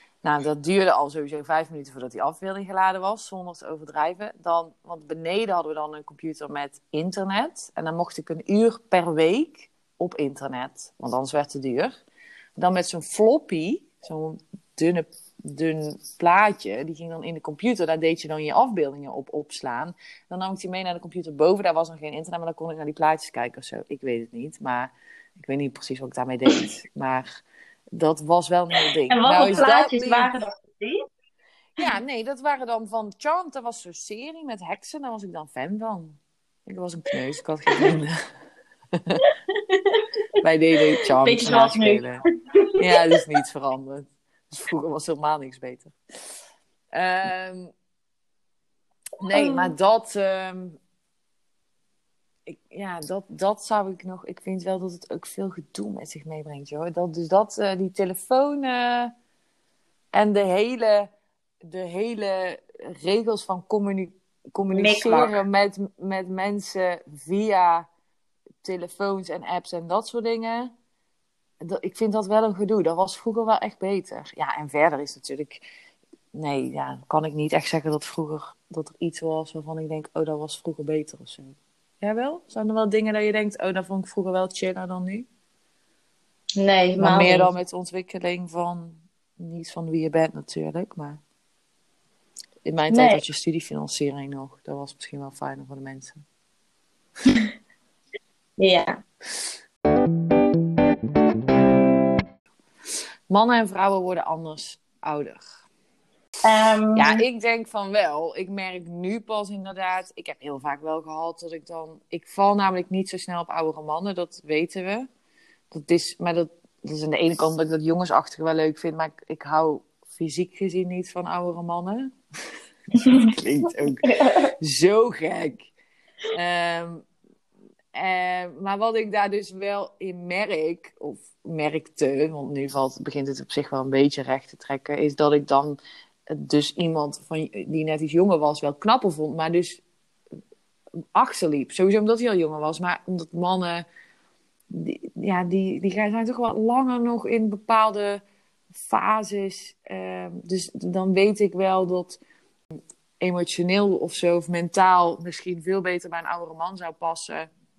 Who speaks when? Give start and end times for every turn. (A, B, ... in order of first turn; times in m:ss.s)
0:00.2-0:11.9 A
0:12.6-0:27.3 A
0:27.9-0:30.3 A
0:29.1-0:31.0 B
0:31.8-0:38.2 A
0:39.0-0:39.2 A
0:39.5-0:40.0 B
0:40.4-0:42.2 A
0:41.2-0:42.0 B
0:42.8-0:45.9 A
0:46.9-0:47.7 A
0:49.2-0:50.8 A
0:49.3-0:49.7 B
0:52.5-0:59.1 A
1:00.1-1:01.1 A
1:01.6-1:07.9 A
1:04.7-1:05.4 B
1:08.6-1:10.7 A
1:11.6-1:15.6 A
1:16.3-1:25.3 A
1:26.6-1:27.5 B
1:27.0-1:31.2 A
1:32.6-1:36.2 A
1:32.9-1:33.2 B
1:38.6-1:39.0 B
1:43.3-1:45.4 A
1:46.4-1:47.2 B
1:46.9-1:55.1 A
1:55.7-2:02.1 A
2:03.0-2:03.3 B
2:03.0-2:05.7 A
2:04.0-2:04.5 B
2:06.3-2:07.0 A
2:07.9-2:15.8 A
2:16.3-2:19.8 A
2:21.1-2:23.8 A
2:24.7-2:28.2 A
2:28.8-2:32.2 A
2:33.2-2:37.5 A